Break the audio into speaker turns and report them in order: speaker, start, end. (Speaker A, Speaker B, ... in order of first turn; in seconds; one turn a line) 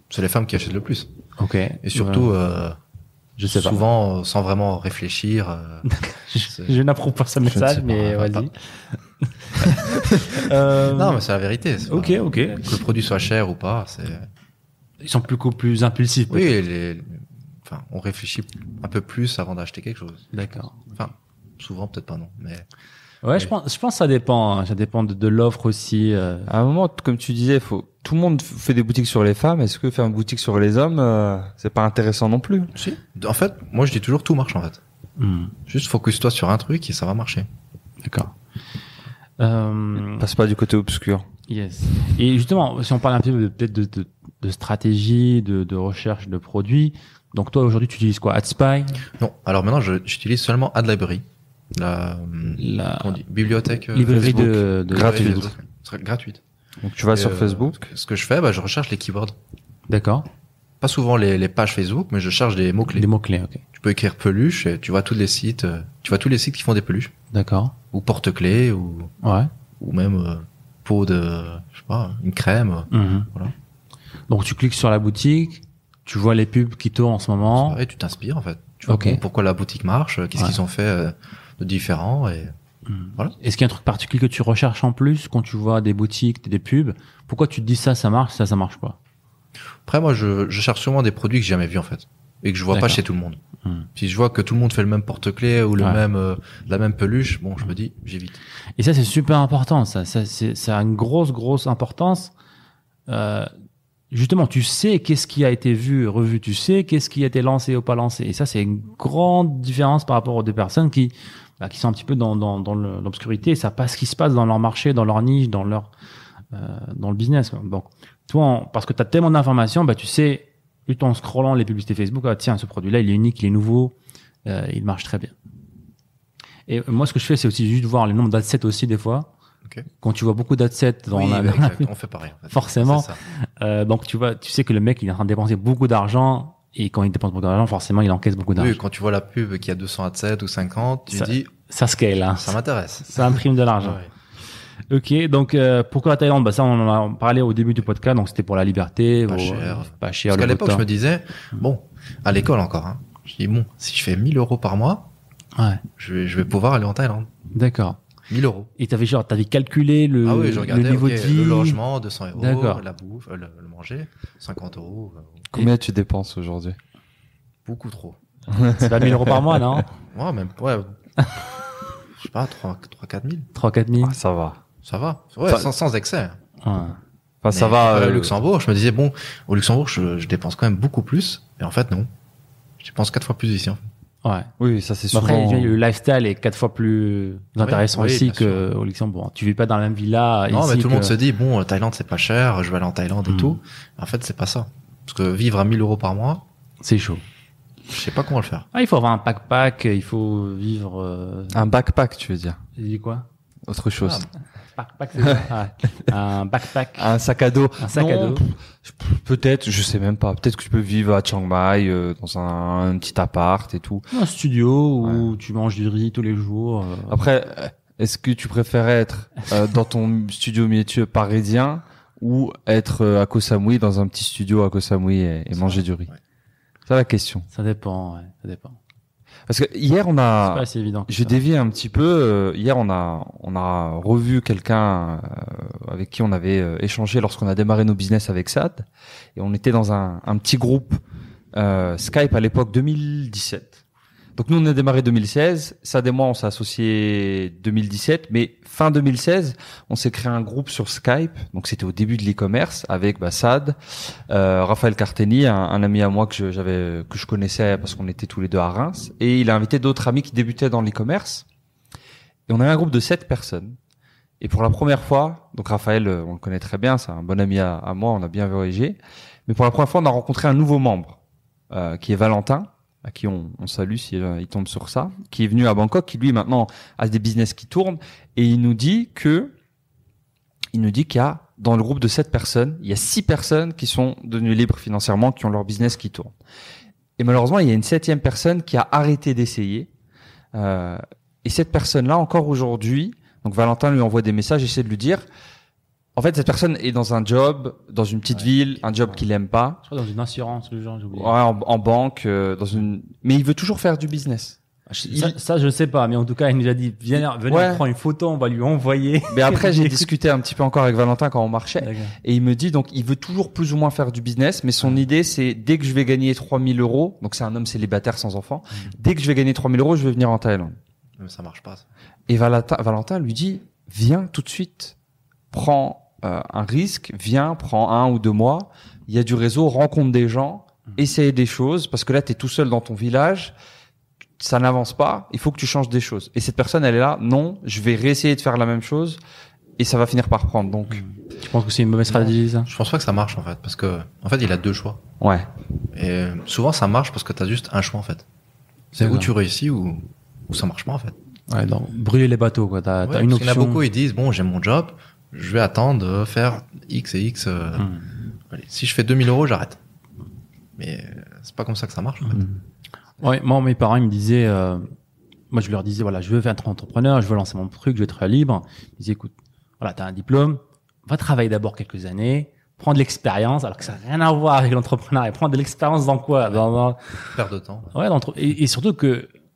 Speaker A: 0.1-1.1
Speaker B: 1.4-2.3
Speaker A: 1.8-2.8
Speaker B: 3.4-3.8
Speaker A: 3.5-5.9
Speaker B: 5.8-8.5
Speaker A: 6.4-6.8
Speaker A: 7.5-8.5
Speaker B: 9.2-11.2
Speaker A: 10.6-14.3
Speaker B: 11.9-12.7
Speaker B: 15.0-16.5
Speaker A: 16.3-20.3
Speaker B: 20.3-20.9
Speaker A: 20.9-22.7
Speaker B: 23.2-26.5
Speaker C: 26.5-32.7
Speaker A: 32.7-34.8
Speaker B: 35.2-35.5
Speaker A: 35.7-37.5
Speaker B: 38.0-38.3
Speaker B: 39.4-40.2
Speaker C: 40.2-41.3
Speaker B: 41.5-49.0
Speaker A: 49.1-56.4
Speaker B: 52.6-53.2
Speaker B: 53.9-55.5
Speaker C: 54.1-55.5
Speaker C: 56.8-57.9
Speaker A: 57.1-59.4
Speaker B: 59.9-60.3
Speaker A: 60.8-63.0
Speaker B: 62.9-63.6
Speaker A: 63.7-67.1
Speaker B: 67.3-67.7
Speaker A: 67.9-69.1
Speaker B: 69.2-69.5
Speaker A: 69.8-73.5
Speaker B: 72.9-73.3
Speaker B: 74.3-77.8
Speaker A: 77.5-82.5
Speaker B: 78.9-79.2
Speaker B: 82.9-89.0
Speaker A: 89.8-93.4
Speaker B: 92.7-93.0
Speaker A: 94.0-98.4
Speaker B: 98.8-102.3
Speaker B: 103.1-103.5
Speaker B: 104.1-115.9
Speaker B: 116.5-123.9
Speaker B: 124.4-125.3
Speaker B: 126.7-129.3
Speaker B: 130.0-131.9
Speaker A: 131.1-133.2
Speaker B: 132.5-138.8
Speaker A: 138.6-141.5
Speaker B: 141.1-144.0
Speaker A: 142.3-144.1
Speaker B: 144.9-150.8
Speaker A: 149.3-155.1
Speaker B: 155.6-155.8
Speaker A: 156.0-157.3
Speaker B: 157.5-158.0
Speaker A: 158.3-158.7
Speaker B: 158.8-161.8
Speaker A: 160.2-165.5
Speaker B: 162.3-162.8
Speaker C: 165.5-166.8
Speaker A: 167.7-168.2
Speaker C: 168.5-169.4
Speaker B: 168.6-169.9
Speaker A: 170.1-170.9
Speaker A: 172.1-173.5
Speaker B: 173.5-174.2
Speaker C: 174.0-174.6
Speaker A: 174.8-176.4
Speaker B: 176.6-177.0
Speaker C: 177.4-178.3
Speaker A: 177.5-182.1
Speaker A: 182.8-183.8
Speaker B: 184.2-184.5
Speaker C: 184.6-185.8
Speaker B: 185.1-191.1
Speaker A: 187.6-188.6
Speaker A: 190.5-196.4
Speaker B: 193.3-193.6
Speaker B: 196.8-197.2
Speaker A: 197.9-198.7
Speaker B: 198.7-201.6
Speaker C: 201.5-202.6
Speaker B: 202.8-203.3
Speaker C: 203.7-204.3
Speaker A: 204.0-204.3
Speaker B: 204.8-207.1
Speaker C: 206.9-214.1
Speaker B: 207.8-208.4
Speaker B: 214.1-217.2
Speaker C: 215.0-215.3
Speaker C: 217.1-226.1
Speaker A: 225.5-225.8
Speaker C: 226.9-227.5
Speaker B: 227.5-228.8
Speaker C: 229.5-241.0
Speaker B: 230.4-231.4
Speaker C: 241.5-243.8
Speaker C: 244.3-261.4
Speaker C: 262.5-263.8
Speaker C: 264.4-271.2
Speaker C: 271.7-279.5
Speaker C: 280.7-286.3
Speaker C: 287.2-289.9
Speaker C: 290.5-295.2
Speaker C: 296.1-299.8
Speaker B: 299.8-301.3
Speaker C: 301.1-305.3
Speaker B: 305.1-310.1
Speaker C: 307.5-307.8
Speaker C: 309.3-320.8
Speaker B: 311.8-312.1
Speaker A: 321.2-321.9
Speaker C: 322.3-324.9
Speaker C: 325.5-333.5
Speaker C: 334.4-339.2
Speaker C: 339.8-341.0
Speaker B: 340.9-342.7
Speaker A: 342.1-345.0
Speaker C: 345.2-345.5
Speaker A: 345.9-348.2
Speaker A: 348.9-351.1
Speaker B: 349.0-349.3
Speaker B: 351.5-353.8
Speaker A: 353.0-357.9
Speaker B: 357.8-358.1
Speaker A: 358.5-359.8
Speaker A: 360.8-362.4
Speaker B: 363.2-364.9
Speaker B: 365.5-377.2
Speaker A: 377.3-377.9
Speaker B: 377.9-379.3